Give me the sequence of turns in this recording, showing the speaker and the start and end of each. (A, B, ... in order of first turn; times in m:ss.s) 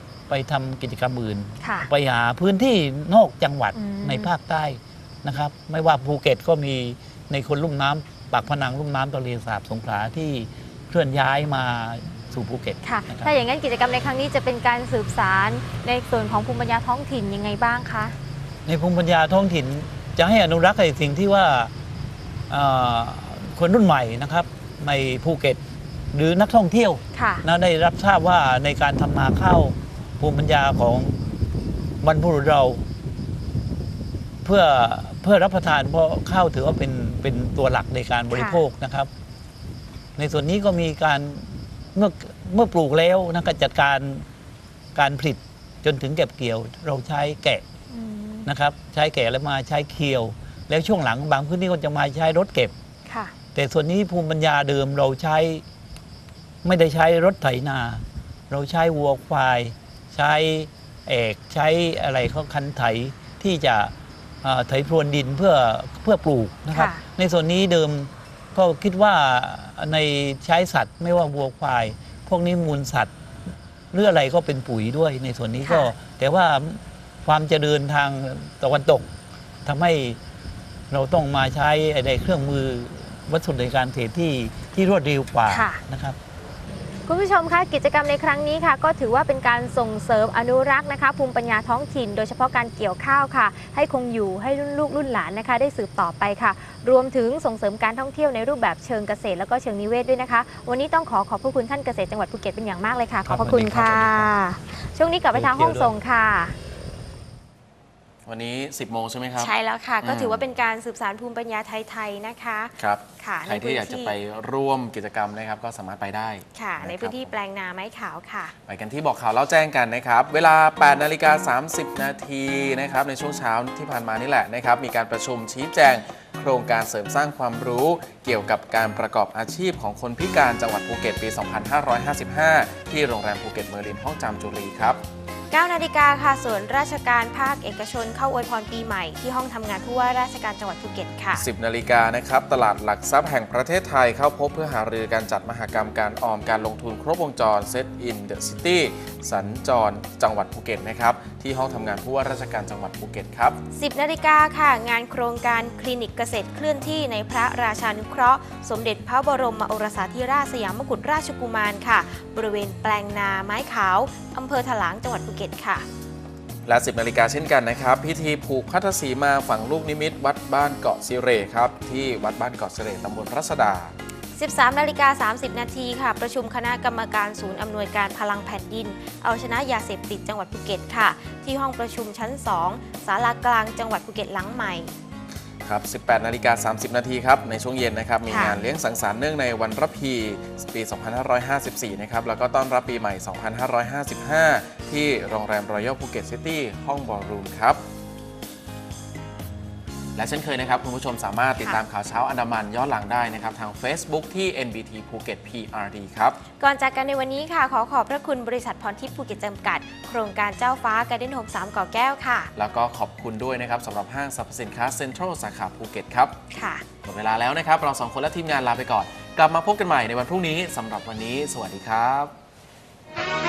0:00.3-0:13.3 A
0:01.6-0:01.9 B
0:03.7-0:04.3 B
0:12.8-0:18.1 B
0:18.6-0:21.7 A
0:22.5-0:25.6 A
0:26.1-0:31.2 A
0:27.1-0:27.4 B
0:32.0-0:32.8 A
0:34.4-0:39.1 A
0:38.3-0:38.6 B
0:40.2-0:44.2 A
0:44.9-0:47.6 A
0:47.9-0:48.5 B
0:48.4-0:52.7 A
0:53.1-0:53.3 B
0:53.5-0:55.6 A
0:56.6-1:13.1 A
1:06.7-1:07.0 B
1:13.9-1:19.0 A
1:15.6-1:15.9 B
1:19.6-1:20.2 A
1:20.9-1:26.2 A
1:25.5-1:25.8 B
1:27.0-1:46.5 B
1:43.2-1:44.3 A
1:45.3-1:45.9 A
1:48.2-1:50.5 C
1:49.4-1:54.1 B
1:52.8-1:57.4 C
1:56.5-1:58.5 B
1:58.7-2:15.0 C
2:15.5-2:21.4 B
2:21.3-2:33.6 C
2:33.7-2:45.8 B
2:46.6-2:53.9 C
2:54.4-3:04.9 B
3:05.6-3:17.8 C
3:08.3-3:08.6 B
3:20.2-3:26.4 C
3:26.6-3:32.5 B
3:32.5-3:36.4 C
3:36.5-3:36.8 B
3:37.0-3:42.3 C